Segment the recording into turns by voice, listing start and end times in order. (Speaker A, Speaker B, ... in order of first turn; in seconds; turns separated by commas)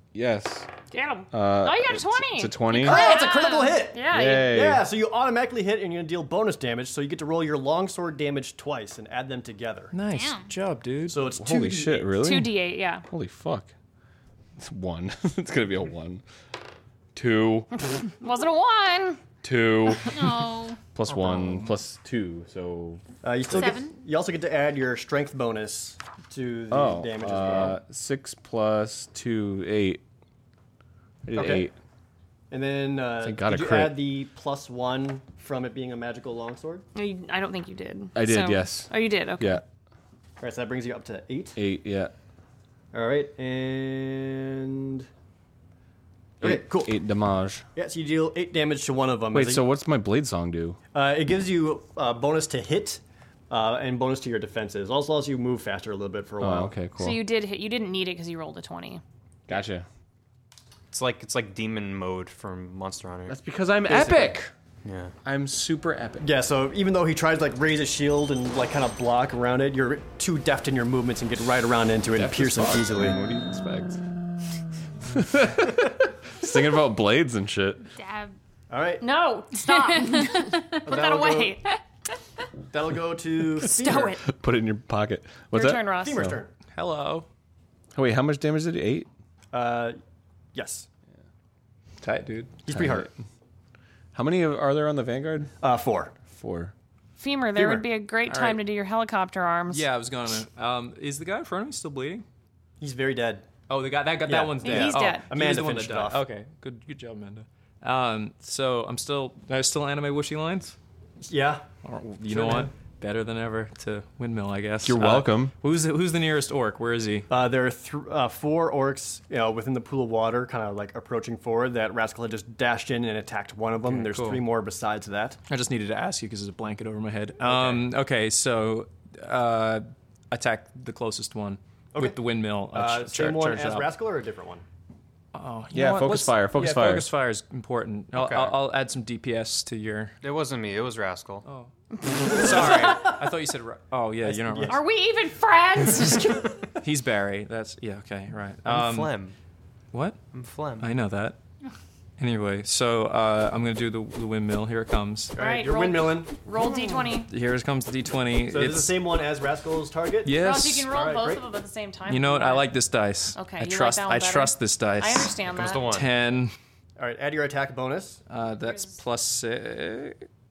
Speaker A: 0.1-0.7, Speaker B: 0.9-4.5, Speaker A: 1.3-3.1, Speaker C: 2.8-9.9, Speaker D: 2.8-3.8, Speaker A: 4.1-4.9, Speaker E: 9.9-11.2, Speaker D: 10.1-10.5, Speaker C: 11.1-12.2, Speaker A: 11.3-13.7, Speaker B: 12.2-13.1, Speaker A: 14.6-16.2, Speaker A: 17.1-17.7, Speaker B: 18.1-19.3, Speaker A: 19.4-20.2, Speaker D: 20.1-20.8, Speaker A: 20.9-23.7, Speaker C: 23.2-27.8, Speaker D: 23.5-24.0, Speaker A: 26.7-30.0, Speaker A: 31.3-31.8, Speaker C: 31.4-31.7, Speaker C: 32.5-36.9, Speaker A: 33.2-34.1, Speaker B: 37.0-39.6, Speaker A: 38.1-39.6, Speaker C: 40.4-41.6, Speaker A: 41.6-42.1, Speaker C: 42.9-45.1, Speaker C: 46.4-47.0, Speaker A: 46.4-47.6, Speaker C: 47.8-49.7, Speaker A: 49.3-50.8, Speaker C: 50.9-56.9, Speaker A: 56.4-57.2, Speaker B: 57.0-59.0, Speaker A: 59.5-59.9, Speaker F: 60.9-63.4, Speaker A: 63.3-64.5, Speaker C: 63.9-64.4, Speaker F: 64.8-65.1, Speaker A: 65.2-66.3, Speaker C: 66.2-73.2, Speaker A: 72.1-74.0, Speaker A: 75.0-77.9, Speaker D: 78.0-78.3, Speaker C: 78.7-79.0, Speaker B: 79.0-81.8, Speaker D: 79.7-80.8, Speaker C: 80.8-81.5, Speaker C: 82.7-84.2, Speaker B: 83.6-84.2, Speaker A: 84.2-86.4, Speaker B: 85.5-86.3, Speaker C: 85.9-86.5, Speaker E: 86.7-87.3, Speaker A: 87.9-89.1, Speaker C: 89.5-90.0, Speaker C: 90.5-90.9, Speaker E: 92.0-92.6, Speaker C: 92.7-93.1, Speaker A: 92.7-93.1, Speaker A: 94.1-95.5, Speaker C: 95.6-96.2, Speaker A: 96.3-96.7, Speaker B: 97.2-99.9, Speaker C: 97.5-97.9, Speaker E: 98.3-98.6, Speaker E: 99.7-102.2, Speaker C: 102.8-103.5, Speaker E: 103.7-110.8, Speaker C: 104.3-106.3, Speaker B: 104.6-105.3, Speaker C: 111.3-111.7, Speaker E: 111.8-117.3, Speaker C: 112.3-112.7, Speaker A: 114.8-115.5, Speaker C: 117.3-125.4, Speaker E: 123.8-124.4, Speaker E: 125.5-133.9, Speaker C: 127.4-127.9, Speaker C: 131.9-134.6, Speaker E: 135.3-140.1, Speaker A: 135.7-137.1, Speaker F: 138.1-138.6, Speaker F: 140.2-141.4, Speaker E: 141.4-144.8, Speaker B: 142.0-143.1, Speaker C: 144.2-144.9, Speaker B: 144.7-146.7, Speaker E: 146.8-149.2, Speaker F: 148.7-149.4, Speaker E: 149.9-150.2, Speaker F: 150.3-150.9, Speaker E: 150.8-151.4, Speaker E: 152.2-155.4, Speaker B: 155.4-157.3, Speaker C: 155.4-156.4, Speaker E: 157.2-159.0, Speaker C: 158.5-161.5, Speaker E: 160.2-160.9, Speaker B: 160.3-162.8, Speaker E: 162.1-166.6, Speaker B: 163.3-165.9, Speaker F: 165.5-166.1, Speaker C: 167.0-168.2, Speaker E: 168.3-170.3, Speaker B: 168.5-169.0